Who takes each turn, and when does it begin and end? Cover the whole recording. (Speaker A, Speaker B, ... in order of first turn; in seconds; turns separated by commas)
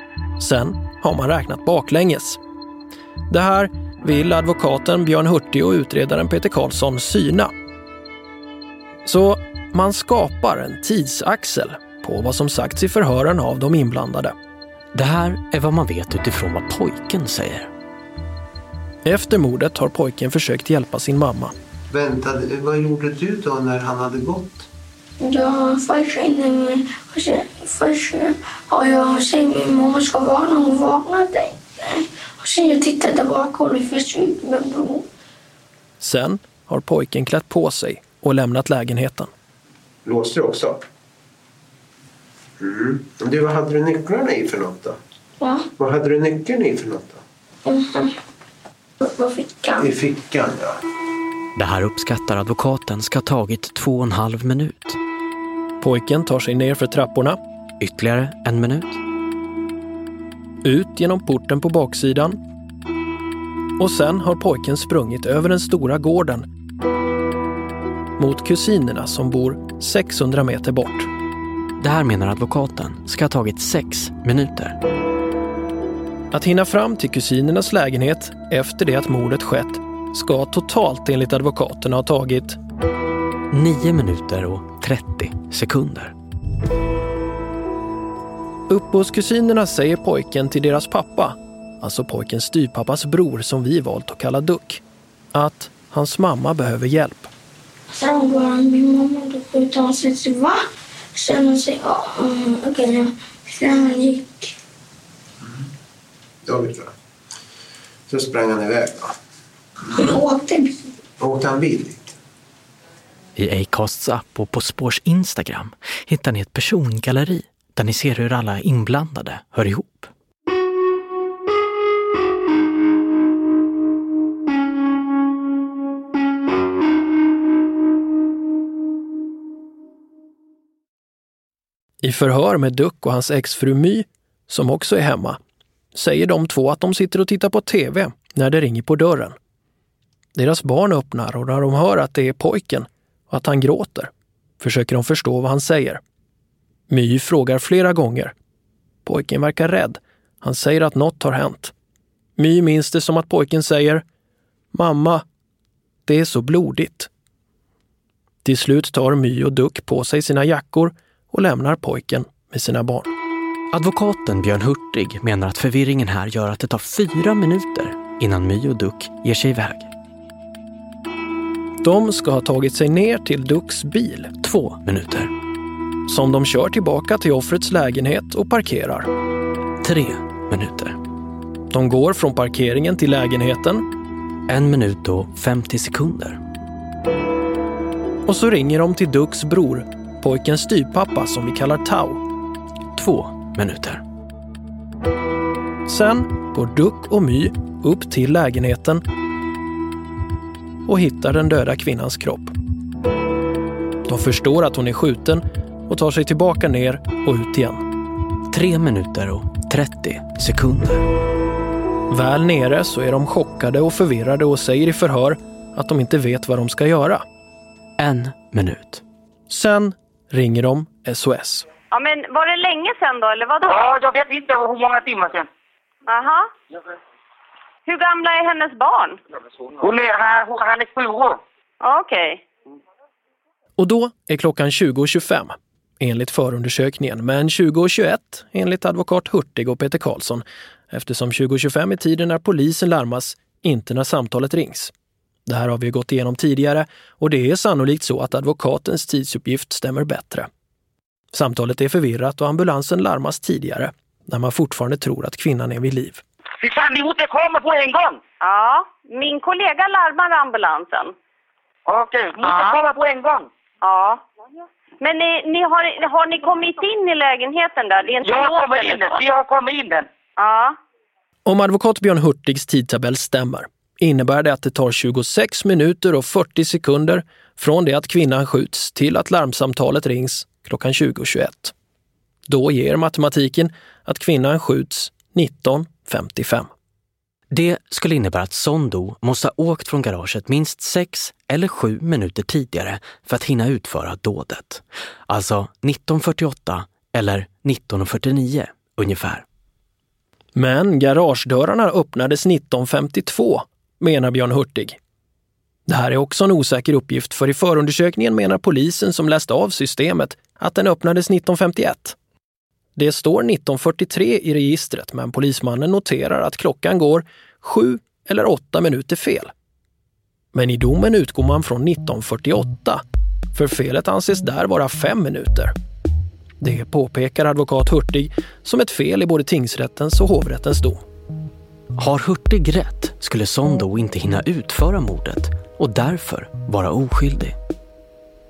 Speaker A: 0.4-2.4, Speaker A: 3.3-7.5, Speaker A: 9.1-14.3, Speaker B: 14.9-17.7, Speaker A: 19.1-21.5, Speaker C: 21.9-24.7, Speaker D: 25.2-35.1, Speaker A: 36.0-39.3, Speaker C: 40.0-40.8, Speaker C: 42.6-45.0, Speaker D: 45.4-45.7, Speaker C: 45.8-47.2, Speaker D: 47.7-48.2, Speaker D: 49.0-49.9, Speaker C: 49.8-50.8, Speaker B: 51.5-55.0, Speaker A: 55.8-57.4, Speaker B: 57.8-59.0, Speaker A: 60.6-62.4, Speaker A: 63.8-66.5, Speaker A: 68.2-71.1, Speaker B: 71.8-74.8, Speaker A: 76.3-82.6, Speaker B: 83.5-86.2, Speaker A: 88.7-94.8, Speaker A: 95.3-97.3, Speaker D: 97.9-104.5, Speaker C: 106.5-106.9, Speaker C: 108.1-109.2, Speaker D: 110.0-110.8, Speaker C: 111.2-112.1, Speaker B: 113.4-120.1, Speaker A: 132.0-135.4, Speaker A: 135.9-139.4, Speaker A: 140.4-146.0, Speaker A: 146.9-148.3, Speaker A: 149.1-151.7, Speaker A: 152.4-154.0, Speaker A: 154.7-155.2, Speaker A: 156.1-157.1, Speaker A: 158.4-163.1, Speaker B: 163.7-169.9, Speaker A: 171.8-174.3, Speaker B: 174.4-175.3, Speaker A: 176.1-179.1, Speaker B: 179.8-181.0, Speaker A: 181.7-183.8, Speaker B: 184.5-186.4, Speaker A: 188.3-192.2, Speaker B: 192.9-194.0, Speaker A: 195.9-199.0, Speaker A: 200.9-202.5, Speaker A: 204.1-207.8, Speaker B: 208.5-211.1, Speaker A: 212.1-217.2, Speaker B: 218.0-219.0, Speaker A: 219.5-221.7, Speaker E: 221.9-223.9, Speaker F: 223.6-225.5, Speaker E: 226.1-226.5, Speaker E: 227.9-229.2, Speaker F: 229.8-231.4, Speaker E: 231.8-232.4, Speaker A: 233.8-244.9, Speaker A: 245.5-250.5, Speaker A: 251.3-256.2, Speaker F: 256.6-258.2, Speaker E: 258.4-261.1, Speaker F: 261.9-263.5, Speaker E: 263.8-264.2, Speaker E: 265.0-269.0, Speaker F: 268.2-270.1, Speaker E: 270.4-270.8, Speaker A: 271.5-281.7, Speaker A: 282.5-286.7, Speaker B: 287.5-299.4, Speaker A: 300.6-305.0, Speaker A: 305.9-312.2, Speaker A: 313.0-319.5, Speaker A: 320.5-323.0, Speaker A: 323.6-325.7, Speaker A: 326.6-331.0, Speaker B: 332.0-337.6